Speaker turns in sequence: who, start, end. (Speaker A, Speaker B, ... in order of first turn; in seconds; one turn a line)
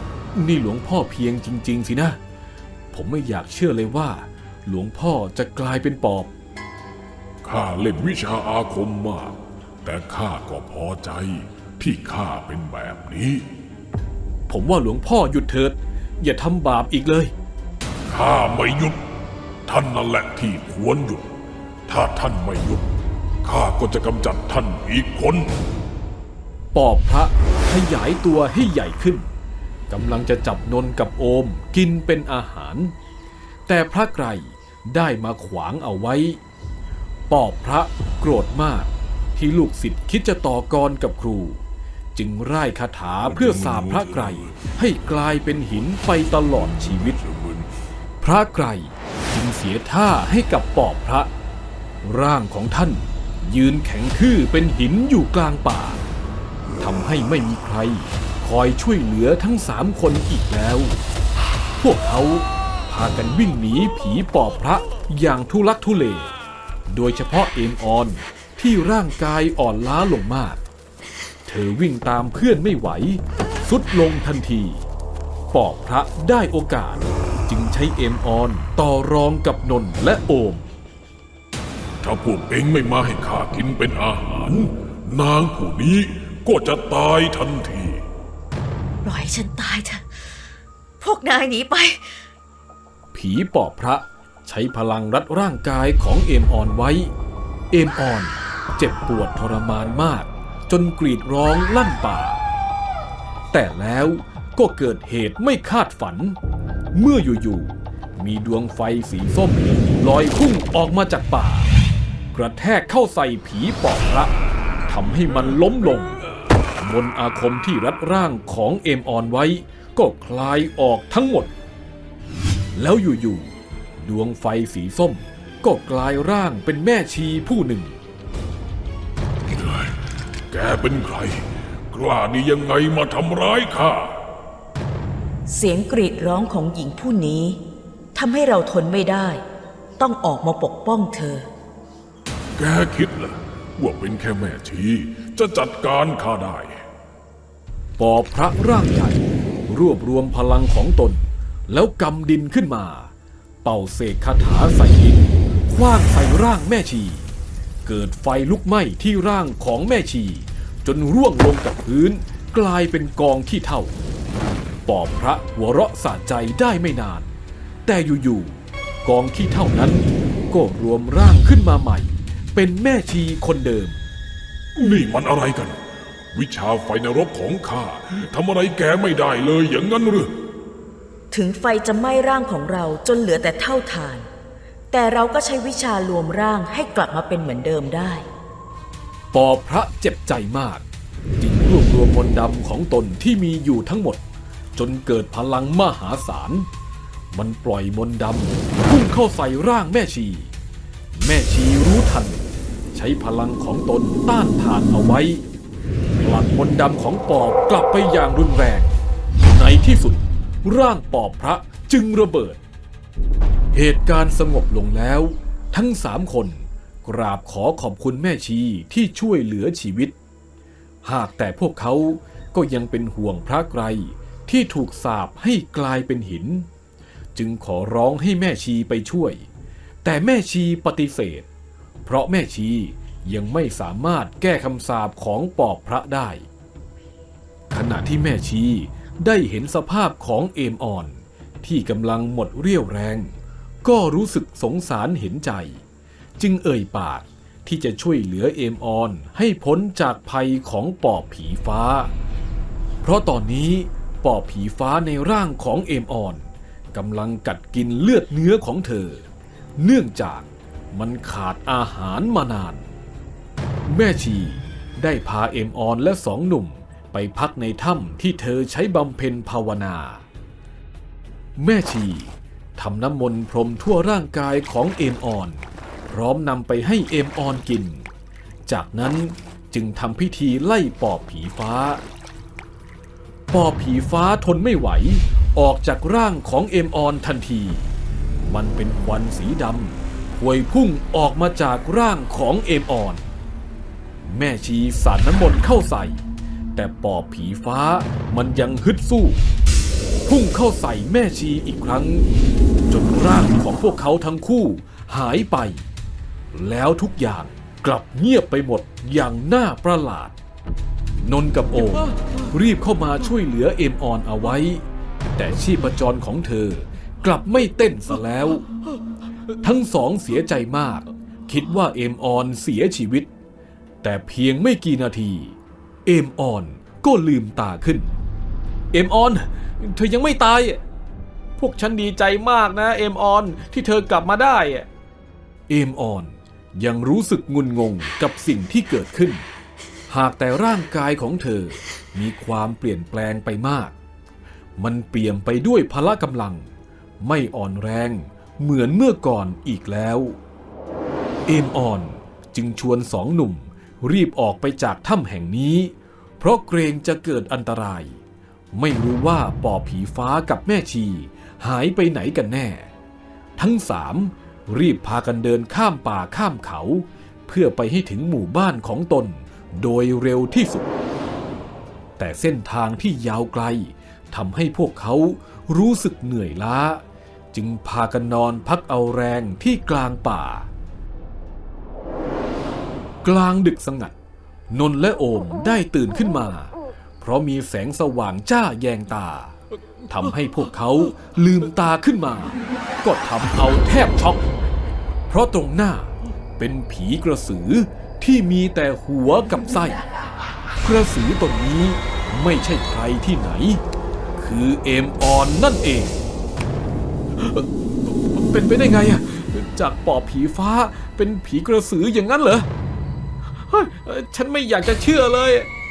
Speaker A: 0.3-2.2
Speaker A: 2.9-6.3
Speaker B: 7.4-13.4
Speaker A: 14.5-17.3
Speaker B: 18.1-19.0
Speaker B: 19.6-21.3
Speaker B: 21.9-22.9
Speaker B: 23.4-25.6
Speaker A: 26.7-29.3
Speaker A: 29.9-32.9
Speaker A: 33.7-36.4
Speaker A: 37.3-41.6
Speaker A: 42.1-47.2
Speaker B: 43.3-44.3
Speaker B: 47.2-47.7
Speaker A: 48.2-51.3
Speaker A: 52.0-56.0
Speaker A: 56.8-61.0
Speaker A: 61.8-66.3
Speaker A: 66.9-70.6
Speaker A: 71.5-74.9
Speaker A: 75.5-80.7
Speaker B: 82.0-88.0
Speaker C: 89.0-90.1
Speaker C: 91.0-92.2
Speaker A: 93.1-97.1
Speaker A: 97.7-102.4
Speaker A: 103.5-106.4
Speaker A: 106.9-111.7
Speaker A: 112.3-114.3
Speaker A: 114.8-116.2
Speaker A: 116.8-121.5
Speaker A: 122.7-128.0
Speaker B: 129.5-129.9
Speaker B: 130.5-134.1
Speaker C: 135.5-137.6
Speaker C: 138.1-139.4
Speaker C: 140.0-141.5
Speaker B: 142.6-146.8
Speaker A: 148.0-153.1
Speaker A: 153.6-157.3
Speaker A: 157.8-164.0
Speaker A: 164.8-167.3
Speaker A: 167.8-174.1
Speaker B: 174.8-175.8
Speaker B: 176.3-180.3
Speaker C: 181.3-184.3
Speaker C: 184.9-188.2
Speaker A: 189.3-190.8
Speaker A: 191.4-194.2
Speaker A: 194.8-196.7
Speaker A: 197.3-200.5
Speaker A: 201.1-205.4
Speaker A: 206.2-212.6
Speaker A: 213.7-220.2
Speaker A: 221.0-226.7
Speaker A: 227.3-229.5
Speaker A: 230.0-231.5
Speaker A: 232.0-236.5
Speaker A: 237.7-245.8
Speaker A: 246.4-252.1
Speaker A: 253.0-262.9
Speaker A: 263.9-270.2
Speaker A: 271.6-278.1
Speaker A: 278.7-282.0
Speaker A: 283.5-287.9
Speaker A: 288.4-293.3
Speaker A: 294.2-296.2
Speaker A: 296.7-299.4
Speaker A: 300.2-302.3
Speaker A: 302.9-305.9
Speaker A: 306.5-310.4
Speaker A: 311.2-314.8
Speaker A: 315.4-318.7
Speaker A: 319.5-323.3
Speaker A: 324.0-328.1
Speaker A: 328.9-330.8
Speaker A: 331.6-334.9
Speaker A: 335.7-339.4
Speaker A: 340.1-343.9
Speaker A: 344.8-346.7
Speaker A: 347.2-350.4
Speaker A: 351.5-358.2
Speaker A: 358.7-362.9
Speaker A: 363.6-370.9
Speaker A: 372.2-380.7
Speaker A: 383.2-384.1
Speaker A: 384.7-389.5
Speaker A: 390.1-394.4
Speaker A: 395.3-400.0
Speaker A: 400.8-403.8
Speaker A: 404.4-406.2
Speaker A: 407.4-412.7
Speaker A: 413.5-415.7